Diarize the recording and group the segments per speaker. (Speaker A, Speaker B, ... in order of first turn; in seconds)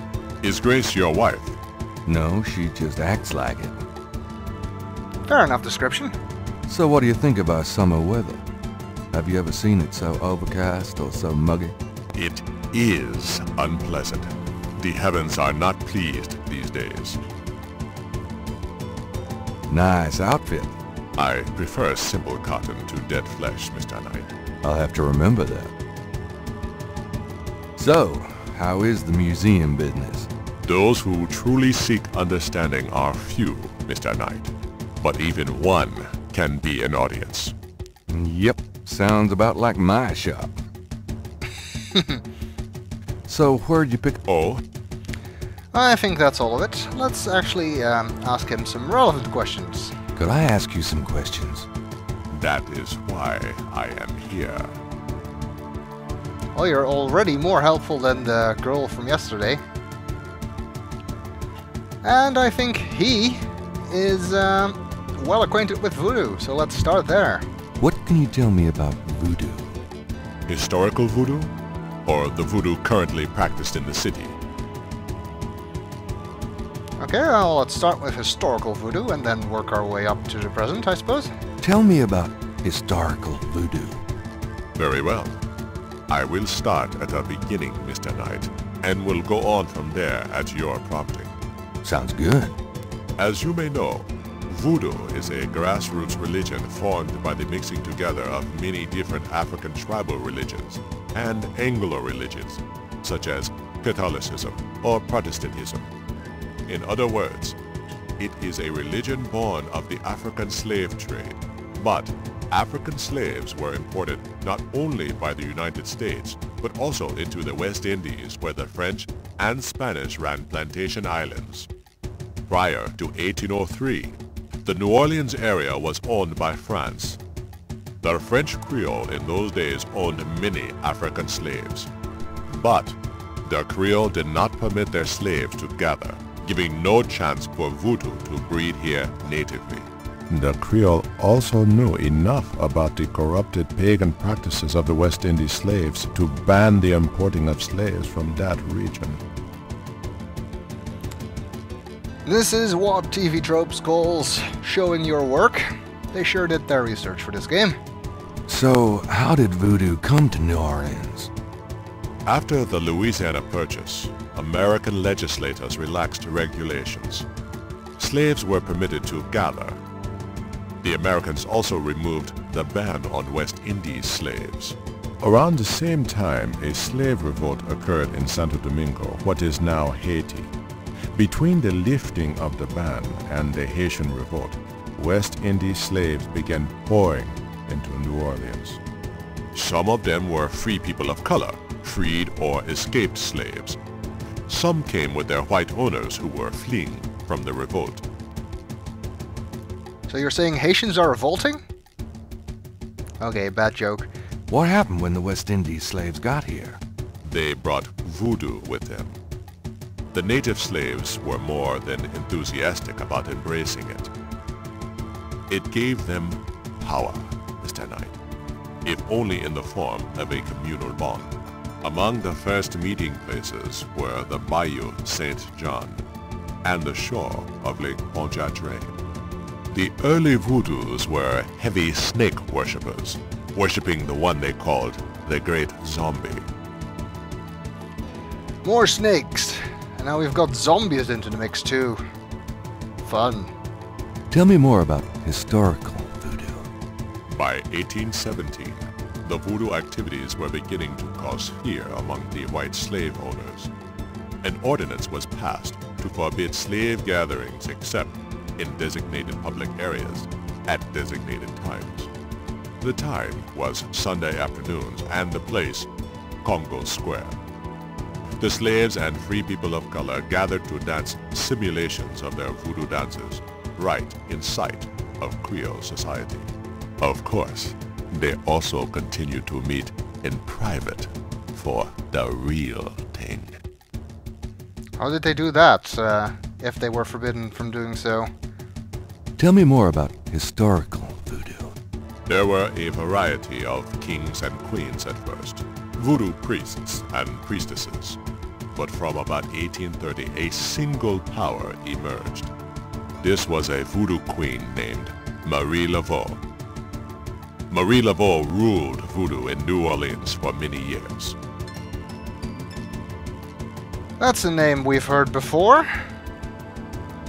Speaker A: 0.4-1.6, 12.1-17.2, 21.2-24.3, 30.6-37.5, 44.2-44.6, 52.3-54.8, 70.5-71.5, 72.0-74.3, 84.8-85.4, 86.1-91.3, 93.2-105.9, 106.7-107.6, 108.2-121.7, 122.5-127.2, 128.0-131.9, 132.5-149.2, 162.3-167.3, 168.0-169.8, 170.8-180.5, 181.1-188.8, 189.5-193.8, 194.5-198.1, 207.2-209.2, 210.1-214.1, 215.5-218.2, 218.8-221.3, 221.8-226.0, 226.6-229.0, 229.7-236.5, 247.3-253.7, 254.4-262.1, 262.8-265.9, 266.4-267.4, 268.4-283.6, 292.3-298.2, 298.7-302.5, 303.2-306.4, 307.7-311.4
Speaker B: 2.1-3.8, 6.7-8.4, 9.1-11.8, 19.7-20.8, 24.6-25.7, 27.8-30.3, 38.1-40.6, 43.3-44.2, 50.2-51.7, 67.8-69.8, 81.6-84.0, 91.8-92.6, 158.5-161.3, 204.5-206.8, 244.3-246.7, 289.4-291.8
Speaker C: 5.3-6.2, 45.7-49.9, 56.5-59.6, 62.0-67.5, 77.0-81.3, 152.2-157.8, 200.1-201.6, 203.2-204.1, 238.6-242.0, 243.0-243.5, 285.0-288.3, 314.2-315.9